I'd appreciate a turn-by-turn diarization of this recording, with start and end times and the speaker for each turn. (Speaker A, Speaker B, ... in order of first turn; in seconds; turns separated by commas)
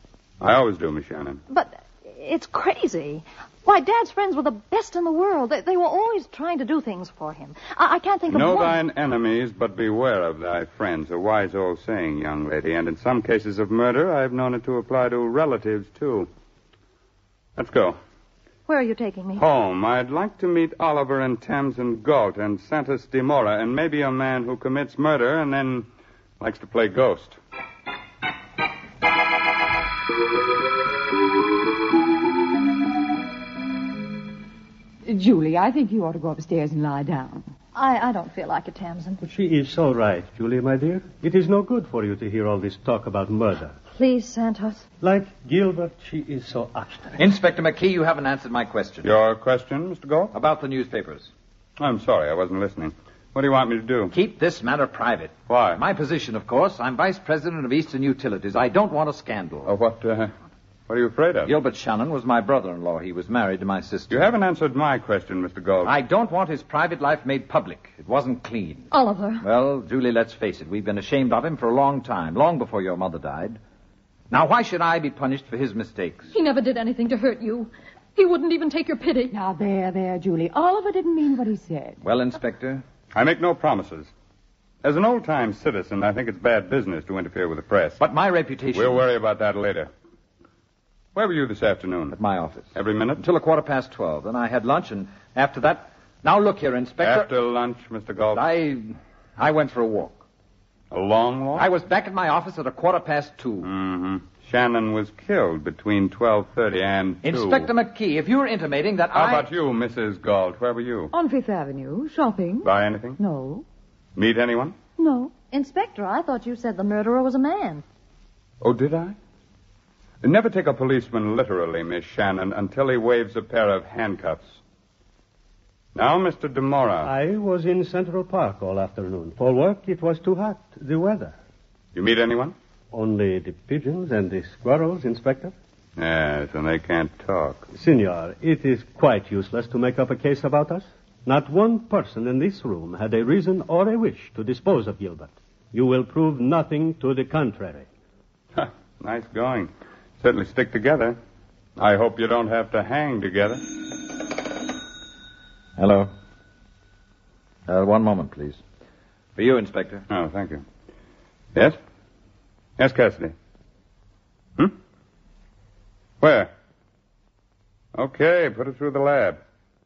Speaker A: 0.4-1.4, Speaker B: 1.5-8.8, Speaker A: 8.3-16.3, Speaker A: 17.6-18.0, Speaker B: 18.7-19.4, Speaker A: 19.4-25.9, Speaker A: 26.4-27.4, Speaker C: 35.1-37.5, Speaker B: 37.8-39.2, Speaker D: 39.2-43.8, Speaker B: 43.9-44.9, Speaker D: 45.0-47.2, Speaker E: 47.2-49.1, Speaker A: 49.0-50.3, Speaker E: 50.3-51.3, Speaker A: 51.8-54.1, Speaker E: 54.1-59.7, Speaker A: 55.5-55.8, Speaker A: 59.7-60.3, Speaker A: 60.9-61.5, Speaker E: 61.5-64.3, Speaker A: 64.1-65.9, Speaker E: 65.8-68.9, Speaker B: 68.9-69.4, Speaker E: 69.4-73.6, Speaker E: 74.3-76.3, Speaker B: 76.3-79.4, Speaker C: 79.3-82.0, Speaker E: 82.0-82.8, Speaker A: 83.1-84.1, Speaker A: 84.8-88.0, Speaker E: 88.0-89.1, Speaker A: 88.7-89.9, Speaker A: 91.2-92.2, Speaker E: 92.1-97.3, Speaker A: 92.7-93.2, Speaker A: 97.0-98.4, Speaker E: 98.3-100.2, Speaker A: 100.9-101.7, Speaker E: 101.5-103.7, Speaker A: 103.6-107.7, Speaker E: 107.2-109.5, Speaker A: 109.1-111.1, Speaker C: 111.1-113.7, Speaker A: 112.6-113.2, Speaker A: 114.2-114.7, Speaker C: 115.0-115.3, Speaker B: 115.3-117.8, Speaker A: 118.6-119.2, Speaker A: 120.2-124.6, Speaker A: 126.0-127.1, Speaker D: 127.0-131.3, Speaker A: 131.9-132.5, Speaker D: 132.9-135.5, Speaker A: 136.0-137.7, Speaker D: 137.7-147.9, Speaker A: 148.6-151.2, Speaker A: 151.8-153.7, Speaker E: 155.8-156.1, Speaker E: 157.7-158.6, Speaker E: 159.4-160.1, Speaker A: 160.1-160.6, Speaker A: 162.8-163.3, Speaker A: 166.2-166.5, Speaker A: 167.9-169.4